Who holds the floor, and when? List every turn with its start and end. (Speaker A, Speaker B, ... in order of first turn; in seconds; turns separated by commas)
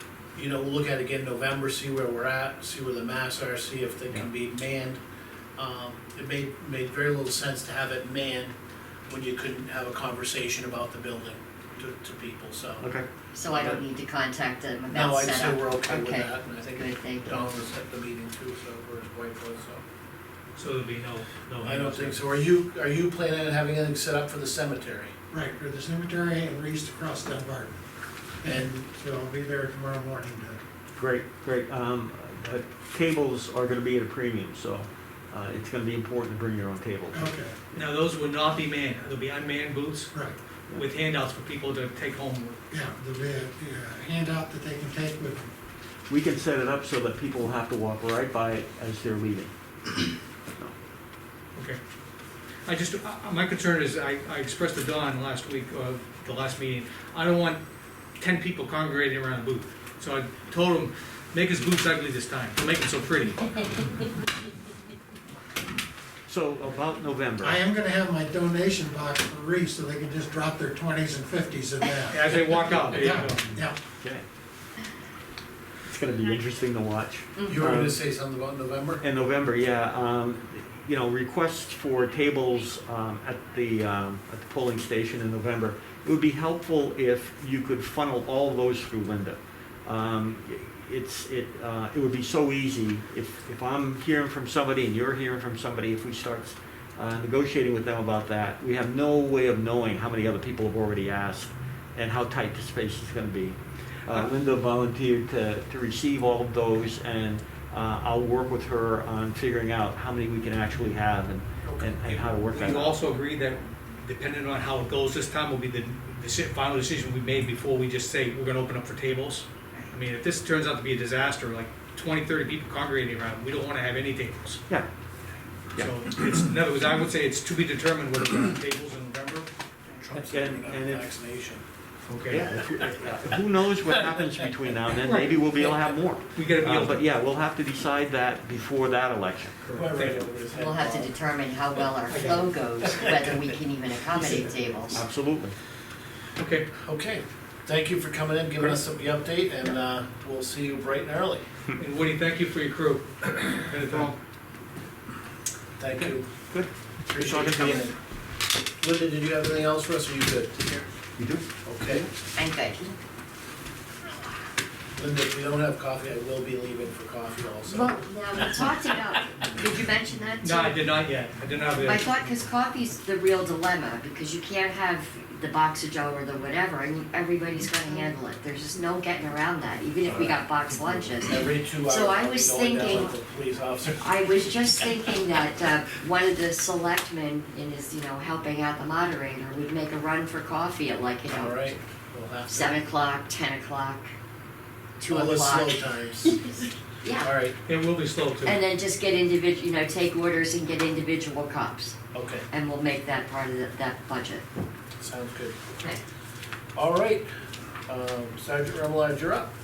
Speaker A: 0.3-5.0, Speaker A: 5.5-8.5, Speaker A: 9.1-12.8, Speaker B: 12.8-13.7, Speaker C: 13.3-17.5, Speaker A: 14.9-19.8, Speaker D: 20.6-22.2, Speaker A: 21.6-25.1, Speaker E: 25.3-27.8, Speaker E: 28.4-30.6, Speaker A: 28.4-28.8, Speaker B: 30.9-37.3, Speaker E: 37.1-37.5, Speaker D: 37.7-40.1, Speaker D: 40.7-42.6, Speaker E: 42.7-45.5, Speaker B: 46.1-49.5, Speaker D: 52.6-57.6, Speaker D: 58.2-63.6, Speaker B: 66.3-67.5, Speaker E: 67.4-73.8, Speaker D: 72.1-73.5, Speaker B: 75.9-78.0, Speaker A: 77.5-79.0, Speaker B: 79.0-113.0, Speaker D: 111.6-124.6, Speaker D: 125.8-129.5, Speaker A: 129.9-131.6, Speaker B: 130.1-131.1, Speaker D: 132.1-132.5, Speaker B: 132.3-139.6, Speaker D: 135.0-137.0, Speaker D: 139.6-140.3, Speaker A: 139.7-141.1, Speaker C: 140.5-145.0, Speaker D: 142.1-142.4, Speaker D: 144.1-144.5, Speaker B: 144.9-145.6, Speaker D: 146.4-146.7, Speaker A: 146.7-151.4, Speaker D: 151.8-154.1, Speaker A: 155.8-156.3, Speaker B: 156.0-157.9, Speaker A: 157.1-157.9, Speaker A: 158.8-160.8, Speaker B: 161.2-162.1, Speaker A: 161.6-162.1, Speaker C: 162.3-162.9, Speaker A: 164.9-168.0, Speaker C: 167.7-170.8, Speaker D: 170.4-172.2, Speaker C: 171.8-183.1, Speaker A: 181.2-184.1, Speaker C: 184.0-191.7, Speaker A: 191.3-192.8, Speaker C: 192.5-194.1, Speaker C: 195.0-197.3, Speaker A: 195.1-196.4, Speaker A: 197.2-197.6, Speaker D: 197.7-198.6, Speaker C: 198.4-201.9, Speaker A: 202.1-202.4, Speaker C: 202.5-204.4, Speaker A: 205.0-205.6, Speaker A: 206.7-207.3, Speaker A: 207.8-209.5